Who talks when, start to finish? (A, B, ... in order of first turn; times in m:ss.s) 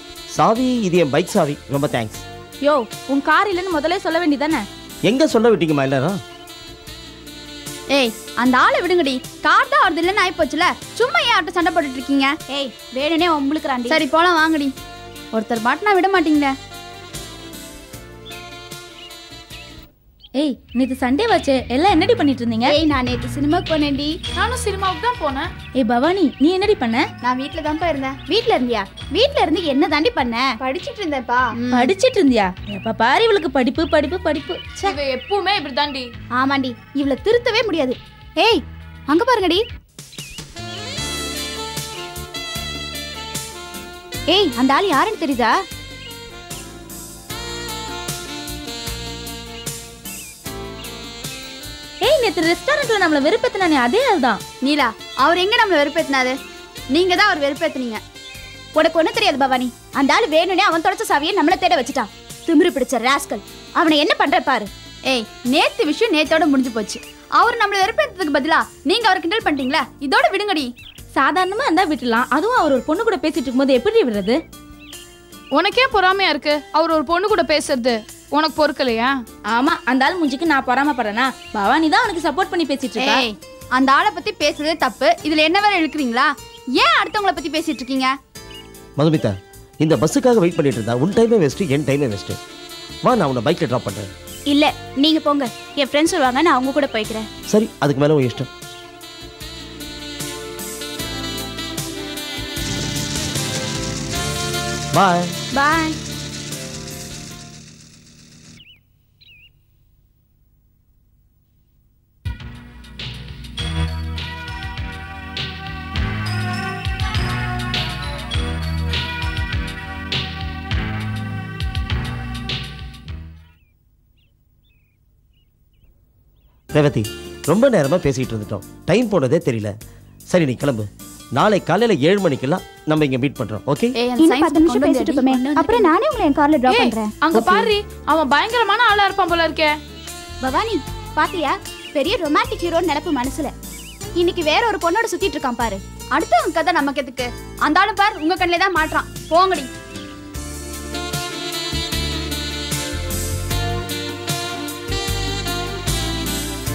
0:00.3-0:02.2 A
0:02.6-0:04.6 B
0:05.0-0:06.2 A
0:07.9-0:12.4 C
0:12.5-0:14.0 D
0:13.9-0:14.7 C
0:15.3-0:16.5 C
0:20.4-0:22.8 B
0:22.7-0:24.1 D
0:24.4-0:25.5 E
0:25.8-0:27.1 B
0:27.2-0:28.2 C
0:28.3-0:30.5 D
0:30.6-0:31.9 C
0:31.8-0:35.0 B
0:34.8-0:36.1 E
0:36.4-0:39.6 D
0:44.3-0:45.6 D
0:52.0-0:54.4 B
0:54.6-0:56.4 C
0:56.9-0:58.0 C
0:58.8-1:04.7 D
1:05.1-1:10.7 C
1:11.2-1:14.4 B
1:15.6-1:19.1 E
1:19.5-1:23.2 B
1:23.0-1:28.1 C
1:29.0-1:32.4 A
1:33.0-1:34.1 A
1:34.5-1:37.3 D
1:37.5-1:38.5 A
1:45.0-1:45.3 A
1:45.5-1:46.0 D
2:06.7-2:09.7 A
2:10.3-2:14.0 A
2:14.0-2:15.9 C
2:14.2-2:17.1 D
2:16.7-2:19.7 E
2:20.4-2:23.5 D
2:24.2-2:25.8 D
2:26.1-2:29.7 C